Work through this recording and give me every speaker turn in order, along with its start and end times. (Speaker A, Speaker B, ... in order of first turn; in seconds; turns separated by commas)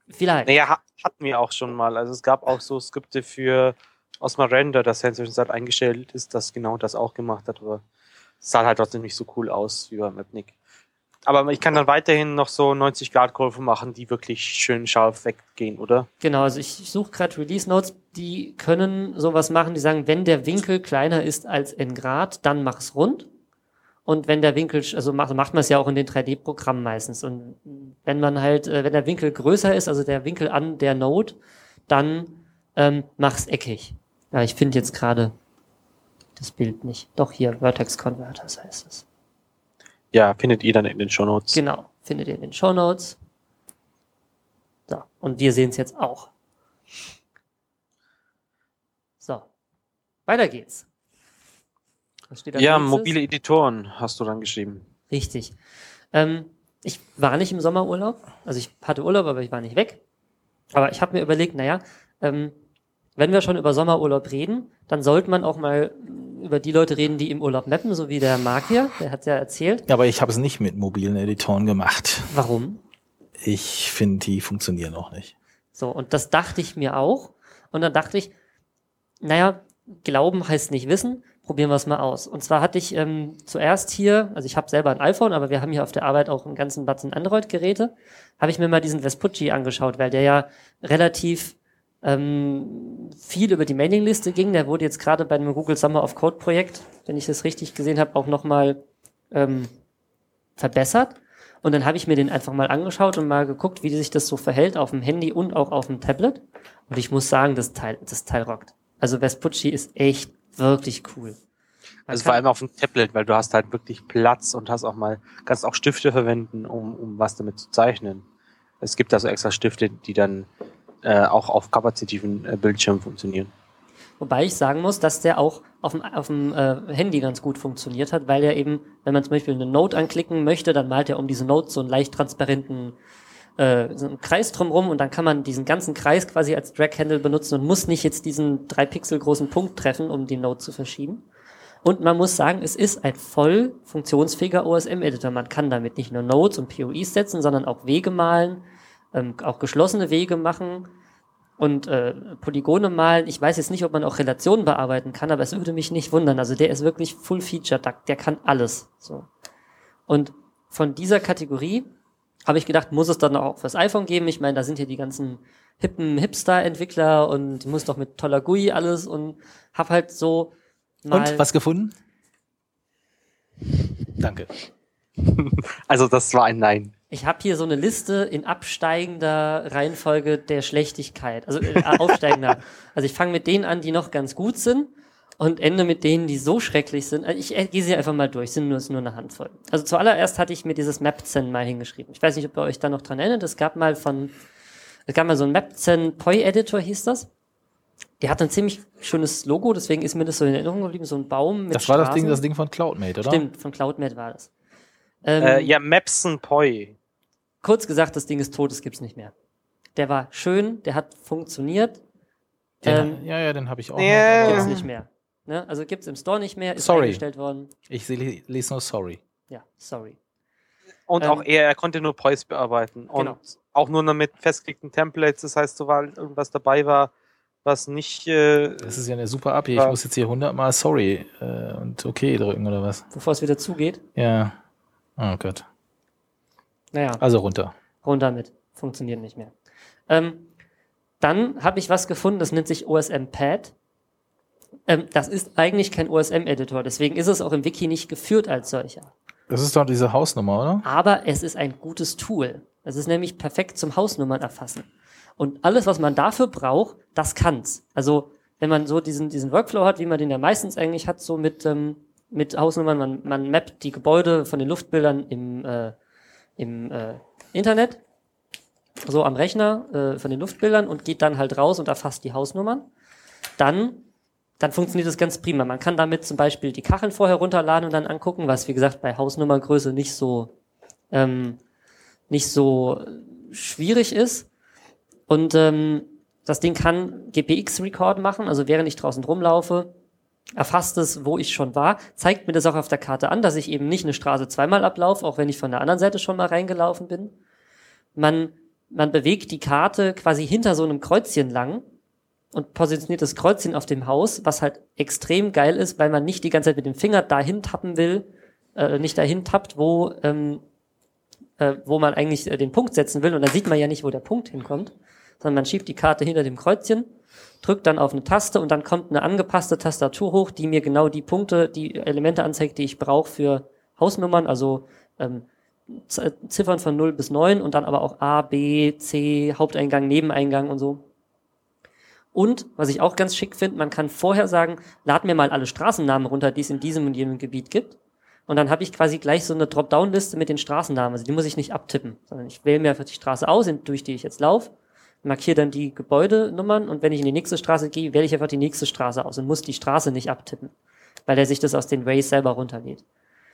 Speaker A: 0.1-0.5, Speaker B: 0.5-7.8, Speaker B: 8.4-10.5, Speaker B: 11.3-16.1, Speaker A: 16.2-23.3, Speaker A: 24.1-35.3, Speaker A: 36.4-39.0, Speaker B: 40.1-41.6, Speaker A: 41.5-43.2, Speaker A: 44.9-46.3, Speaker A: 49.2-49.5, Speaker A: 50.3-50.9, Speaker A: 52.3-53.2, Speaker B: 52.5-54.9, Speaker A: 55.1-55.6, Speaker A: 56.1-60.0, Speaker A: 60.7-62.5, Speaker A: 63.2-69.9, Speaker C: 69.9-72.3, Speaker A: 72.3-72.8, Speaker C: 73.4-75.3, Speaker A: 75.8-78.3, Speaker A: 79.2-99.7, Speaker A: 100.6-111.4, Speaker A: 112.1-112.4, Speaker B: 112.1-118.2, Speaker B: 118.8-120.5, Speaker B: 121.0-123.5, Speaker A: 124.2-133.0, Speaker A: 133.6-141.2, Speaker A: 141.8-150.9, Speaker A: 151.6-159.3, Speaker A: 160.1-161.9, Speaker A: 162.5-171.5, Speaker C: 171.1-171.9, Speaker C: 174.2-174.5, Speaker B: 175.2-176.9, Speaker A: 177.1-194.3, Speaker B: 181.9-182.2, Speaker A: 195.1-197.3, Speaker A: 198.2-202.4, Speaker C: 201.7-203.4, Speaker A: 203.2-204.5, Speaker A: 205.2-205.8, Speaker B: 205.4-207.0, Speaker A: 207.6-209.3, Speaker A: 210.0-212.0, Speaker C: 212.8-214.8, Speaker A: 212.8-213.2, Speaker B: 214.0-214.8, Speaker A: 214.4-217.7, Speaker C: 216.8-217.2, Speaker C: 217.9-219.2, Speaker A: 219.5-220.2, Speaker B: 221.1-227.1, Speaker B: 227.7-229.0, Speaker C: 228.8-233.1, Speaker A: 233.1-234.0, Speaker C: 234.2-234.6, Speaker C: 235.2-235.7, Speaker A: 236.9-237.2, Speaker C: 237.2-237.7, Speaker A: 238.0-239.5, Speaker A: 240.1-240.5, Speaker A: 241.2-243.7, Speaker A: 244.9-249.1, Speaker C: 249.5-250.8, Speaker A: 250.8-265.9, Speaker A: 266.6-268.0, Speaker A: 269.0-272.9, Speaker A: 273.6-274.1, Speaker A: 274.6-280.5, Speaker A: 281.1-281.6, Speaker A: 282.3-284.5, Speaker A: 285.3-289.9, Speaker A: 290.6-297.3, Speaker A: 298.2-301.9, Speaker A: 302.5-310.6, Speaker A: 311.6-317.1, Speaker A: 317.6-331.0, Speaker A: 332.3-338.0, Speaker A: 338.5-344.7, Speaker A: 345.2-350.7, Speaker A: 351.3-353.0